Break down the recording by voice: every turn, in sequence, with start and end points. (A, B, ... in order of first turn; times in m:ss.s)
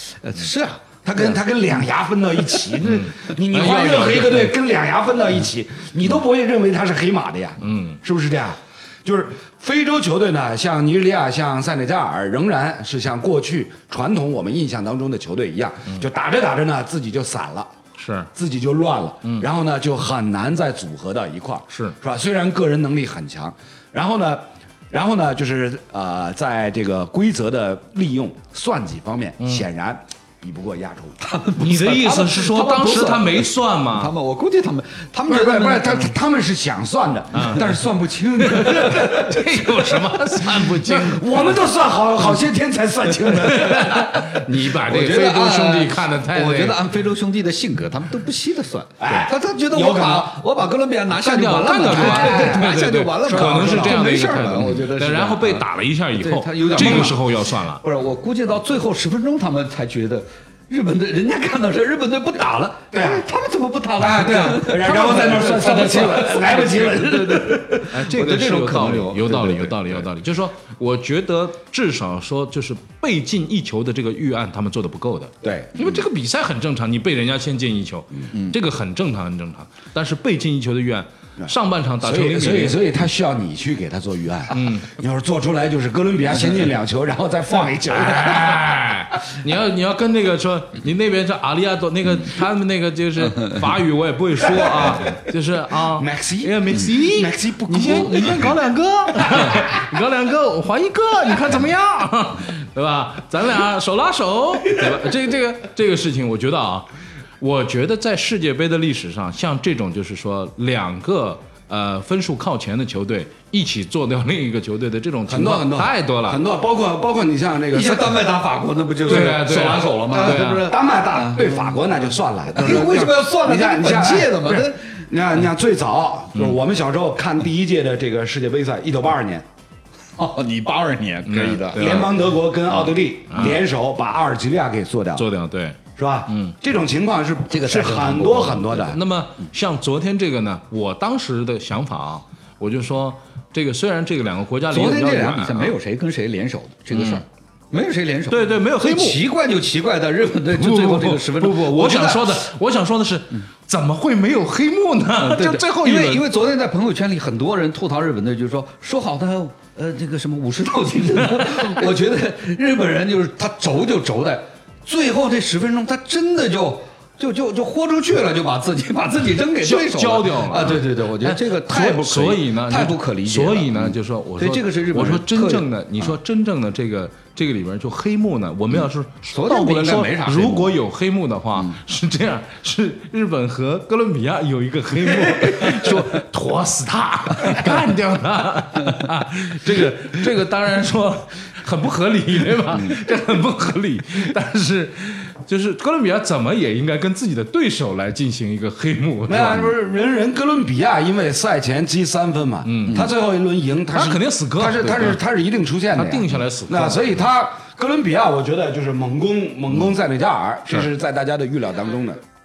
0:00.2-0:01.3 A
0:01.0-0:17.7 B
0:02.8-0:04.5 C
0:07.6-0:08.0 C
0:18.0-0:18.3 C
0:18.3-0:31.2 B
0:21.7-0:21.9 C
0:31.2-0:36.1 A
0:31.6-0:34.1 C
0:35.3-0:44.0 B
0:37.3-0:37.6 C
0:37.5-0:38.8 A
0:38.4-0:41.5 C
0:43.4-0:46.8 C
0:43.6-0:57.2 A
0:49.0-0:50.3 B
0:51.1-0:57.8 C
0:51.9-0:54.1 B
0:56.8-0:57.1 B
0:57.8-1:10.1 A
1:02.9-1:03.2 B
1:04.0-1:07.7 B
1:07.9-1:22.8 C
1:15.4-1:15.8 B
1:22.0-1:28.8 B
1:24.5-1:24.9 C
1:27.9-1:46.9 C
1:34.5-1:35.1 B
1:35.8-1:38.5 B
1:39.3-1:39.7 B
1:47.4-1:56.4 C
1:55.3-1:58.3 B
1:57.7-2:01.7 A
1:59.0-2:00.7 C
2:00.1-2:09.4 B
2:02.5-2:04.8 A
2:10.2-2:12.1 A
2:11.2-2:12.1 C
2:11.7-2:15.2 B
2:13.3-2:13.6 C
2:15.2-2:16.5 C
2:16.0-2:19.0 B
2:17.5-2:18.7 A
2:18.4-2:25.7 C
2:24.7-2:32.4 A
2:26.9-2:27.2 C
2:28.3-2:29.2 C
2:30.5-2:36.3 C
2:35.2-2:56.1 A
2:41.3-2:41.8 C
2:49.6-3:19.7 C
2:58.7-3:00.8 A
3:19.3-3:32.2 B
3:22.6-3:23.1 C
3:23.9-3:25.2 C
3:25.9-3:27.2 C